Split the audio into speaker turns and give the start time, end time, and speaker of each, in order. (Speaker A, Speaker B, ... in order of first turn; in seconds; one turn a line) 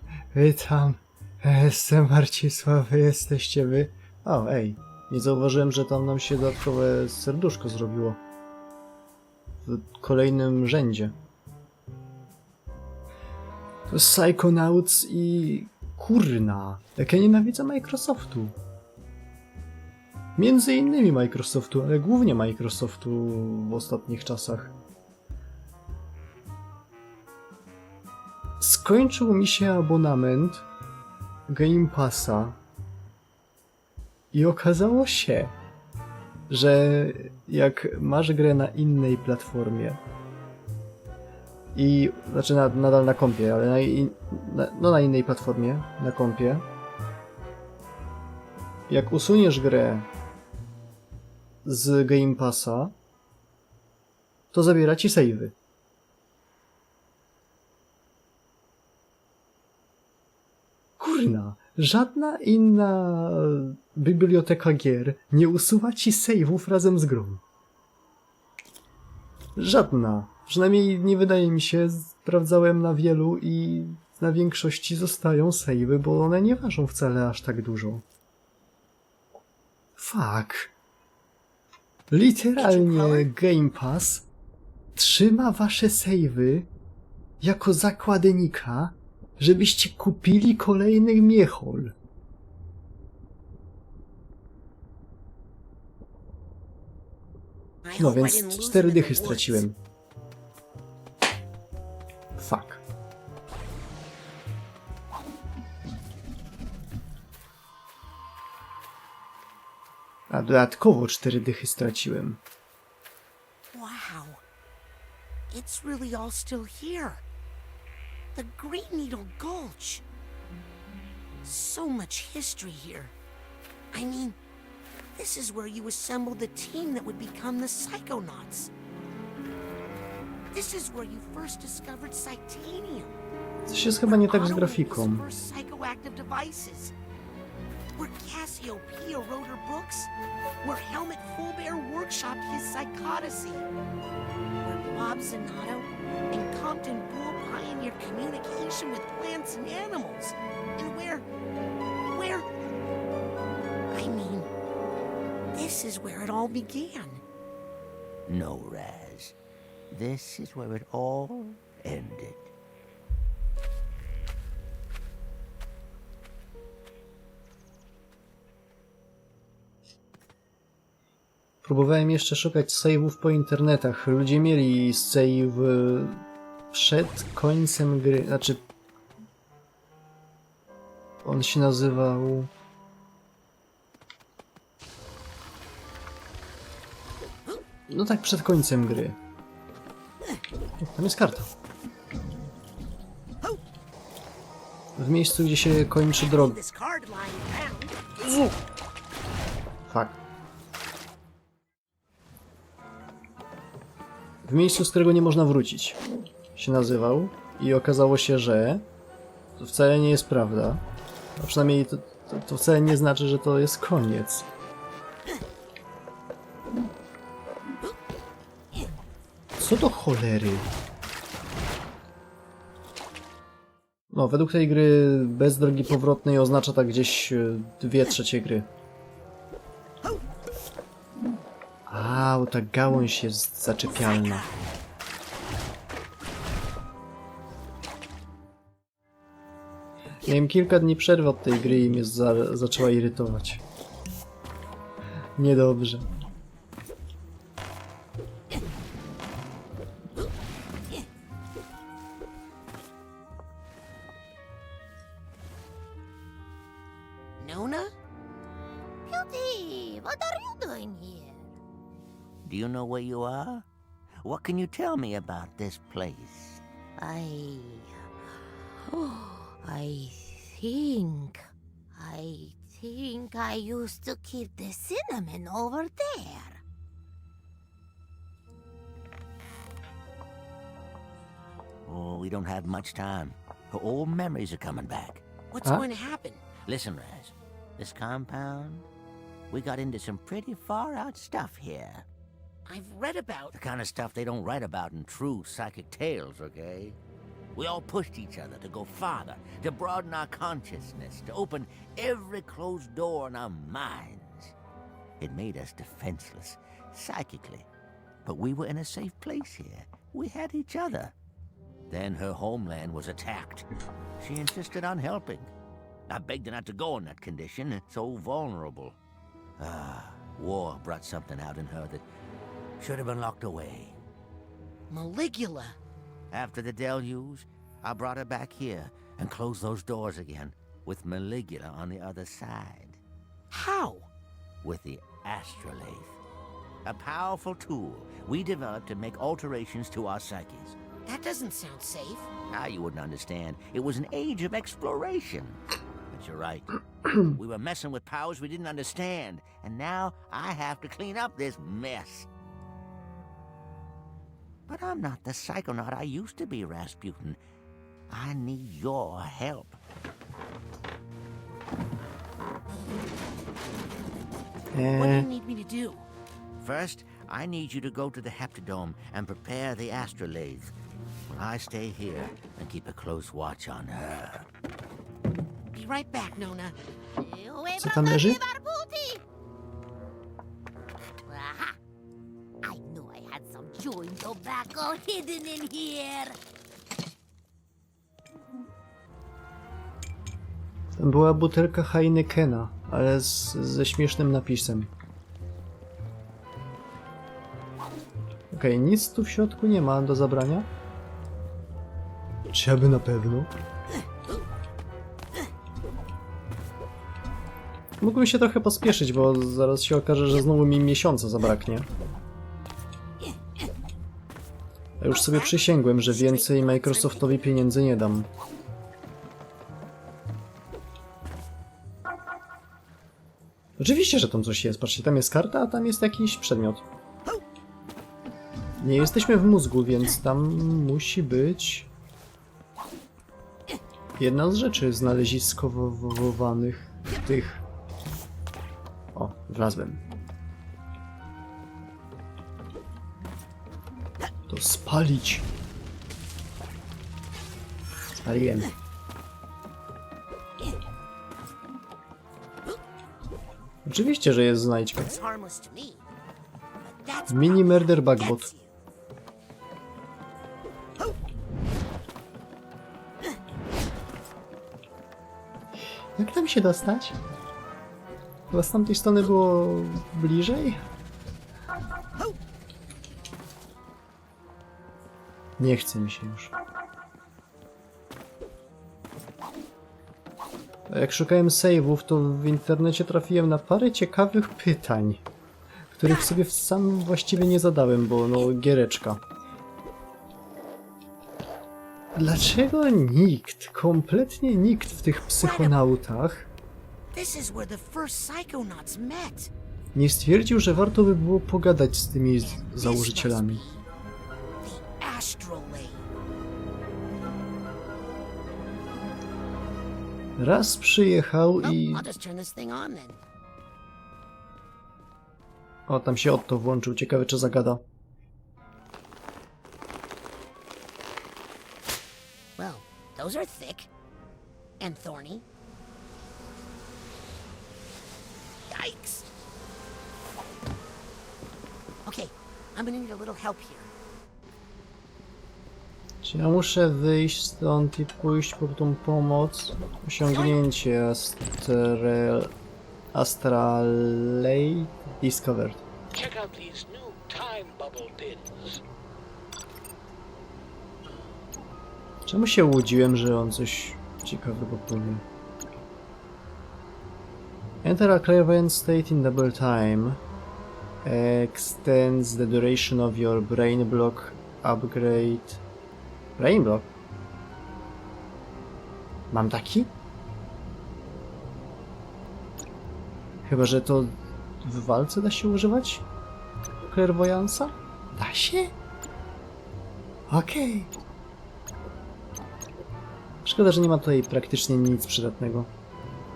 Speaker A: 0.3-8.2
Speaker A: 9.6-11.1
Speaker A: 13.9-18.6
Speaker A: 20.4-24.7
Speaker A: 28.6-30.6
Speaker A: 31.5-32.6
Speaker A: 34.3-35.5
Speaker A: 36.5-40.0
Speaker A: 41.7-46.6
Speaker A: 48.9-50.1
Speaker A: 51.6-52.9
Speaker A: 54.5-55.5
Speaker A: 61.0-67.4
Speaker A: 69.5-78.0
Speaker A: 80.0-80.7
Speaker A: 82.1-84.2
Speaker B: 82.5-83.3
Speaker A: 85.0-86.7
Speaker A: 87.4-91.9
Speaker B: 97.8-99.7
Speaker A: 98.0-99.8
Speaker A: 102.4-102.8
Speaker A: 110.3-112.4
Speaker B: 113.7-114.4
Speaker B: 115.5-117.2
Speaker B: 118.3-120.0
Speaker B: 121.4-123.1
Speaker B: 123.9-124.4
Speaker B: 125.1-128.7
Speaker B: 130.5-133.2
Speaker A: 133.7-135.2
Speaker B: 134.0-136.9
Speaker B: 137.9-143.7
Speaker B: 144.6-151.3
Speaker B: 152.1-152.4
Speaker B: 153.9-154.5
Speaker B: 155.5-157.2
Speaker C: 158.3-159.3
Speaker C: 159.9-162.5
Speaker A: 171.6-178.6
Speaker A: 181.2-182.5
Speaker A: 187.9-189.2
Speaker A: 190.8-191.5
Speaker A: 195.0-196.6
Speaker B: 196.2-198.1
Speaker A: 199.9-200.2
Speaker A: 204.4-206.0
Speaker A: 206.6-208.8
Speaker A: 209.6-210.8
Speaker A: 211.4-214.4
Speaker A: 219.6-220.7
Speaker A: 224.1-228.7
Speaker A: 231.9-234.5
Speaker B: 234.3-234.6
Speaker A: 240.2-243.6
Speaker A: 245.4-246.1
Speaker B: 257.4-257.9
Speaker D: 259.1-261.5
Speaker C: 262.4-263.6
Speaker C: 264.2-266.6
Speaker D: 267.0-267.9
Speaker D: 268.8-276.6
Speaker C: 281.8-285.2
Speaker B: 285.5-286.4
Speaker C: 286.6-288.9
Speaker C: 289.5-292.1
Speaker B: 292.6-293.6
Speaker C: 293.5-297.0
Speaker C: 297.5-304.5
Speaker C: 305.2-307.7
Speaker C: 308.2-311.1
Speaker C: 311.9-313.7
Speaker C: 314.2-315.5
Speaker C: 316.1-319.0
Speaker C: 319.6-322.0
Speaker C: 322.8-324.0
Speaker B: 324.9-325.8
Speaker C: 326.3-333.0
Speaker B: 333.5-334.1
Speaker C: 334.6-336.2
Speaker C: 336.8-340.8
Speaker B: 341.1-342.3
Speaker C: 342.5-352.3
Speaker C: 354.7-357.4
Speaker C: 358.1-359.8
Speaker A: 364.7-365.3
Speaker B: 364.9-366.1
Speaker C: 366.6-370.7
Speaker C: 371.3-374.4
Speaker B: 375.7-376.8
Speaker D: 377.2-379.2
Speaker A: 377.8-378.4
Speaker D: 381.3-381.8
Speaker D: 382.6-386.4
Speaker A: 391.0-394.9
Speaker A: 398.5-400.7
Speaker A: 402.5-403.5
Speaker A: 408.0-411.9
Speaker A: 415.0-418.3
Speaker B: 415.1-417.7
Speaker A: 423.8-426.8
Speaker A: 428.8-431.9
Speaker A: 434.2-437.6
Speaker A: 439.1-440.0
Speaker A: 444.5-445.4
Speaker A: 448.1-448.7
Speaker A: 453.8-455.2
Speaker B: 454.9-456.0
Speaker B: 456.8-458.8
Speaker A: 457.3-458.5
Speaker A: 466.1-467.2
Speaker A: 468.5-470.8
Speaker A: 475.6-476.5
Speaker A: 480.9-485.2
Speaker A: 485.9-489.2
Speaker A: 492.1-496.5
Speaker B: 495.2-495.8
Speaker B: 497.1-499.5
Speaker A: 499.9-503.6
Speaker B: 502.4-503.9
Speaker B: 504.6-506.1
Speaker A: 510.4-512.0
Speaker B: 511.6-513.2
Speaker A: 515.9-517.8
Speaker B: 522.6-523.9
Speaker B: 524.8-525.4
Speaker B: 528.7-529.3
Speaker B: 532.0-533.9
Speaker A: 536.2-542.5
Speaker B: 540.2-540.5
Speaker A: 543.1-545.8
Speaker E: 546.1-548.8
Speaker A: 552.2-555.2
Speaker A: 557.8-560.2
Speaker A: 561.0-565.6
Speaker A: 566.4-566.9
Speaker A: 569.3-569.9
Speaker A: 573.4-576.1
Speaker A: 576.8-578.7
Speaker A: 580.3-580.9
Speaker A: 583.4-585.7